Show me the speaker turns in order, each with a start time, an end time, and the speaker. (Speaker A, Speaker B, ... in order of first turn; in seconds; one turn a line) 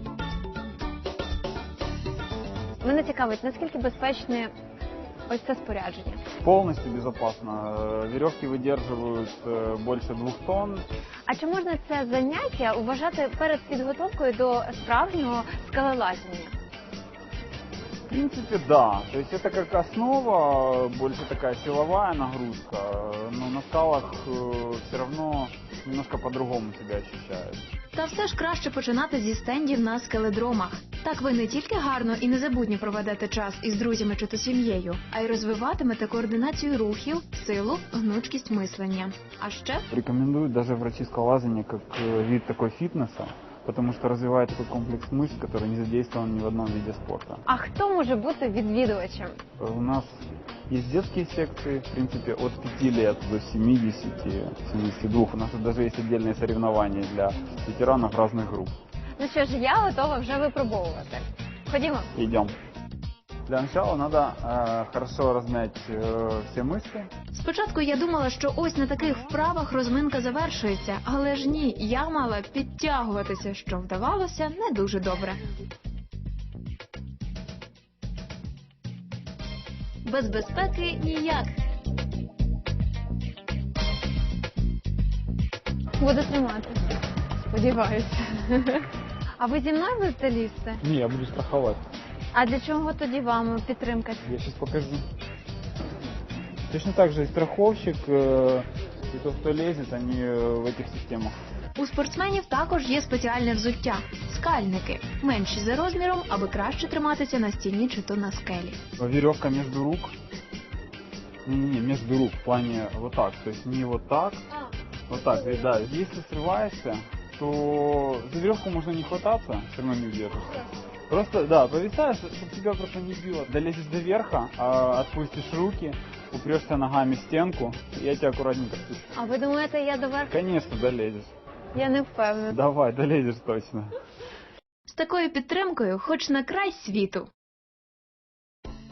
Speaker A: 2.8-4.5
Speaker A: 5.3-6.2
Speaker B: 6.4-10.9
Speaker A: 11.3-16.6
Speaker B: 18.1-27.6
Speaker C: 27.9-39.9
Speaker B: 39.9-47.4
Speaker A: 47.5-49.4
Speaker B: 49.6-58.7
Speaker A: 59.2-62.1
Speaker B: 62.1-62.5
Speaker B: 63.5-67.1
Speaker C: 67.3-75.4
Speaker C: 80.0-81.5
Speaker A: 86.0-88.9
Speaker A: 89.4-90.8
Speaker B: 90.8-91.8
Speaker A: 92.3-94.3
Speaker B: 94.2-95.0
Speaker B: 96.7-101.3
Speaker C: 101.8-108.8
Speaker B: 109.0-110.1
Speaker B: 111.5-114.6
Speaker B: 115.1-129.0
Speaker A: 129.1-130.3
Speaker B: 130.3-131.3
Speaker A: 131.7-132.6
Speaker B: 132.5-134.0
Speaker C: 134.9-137.3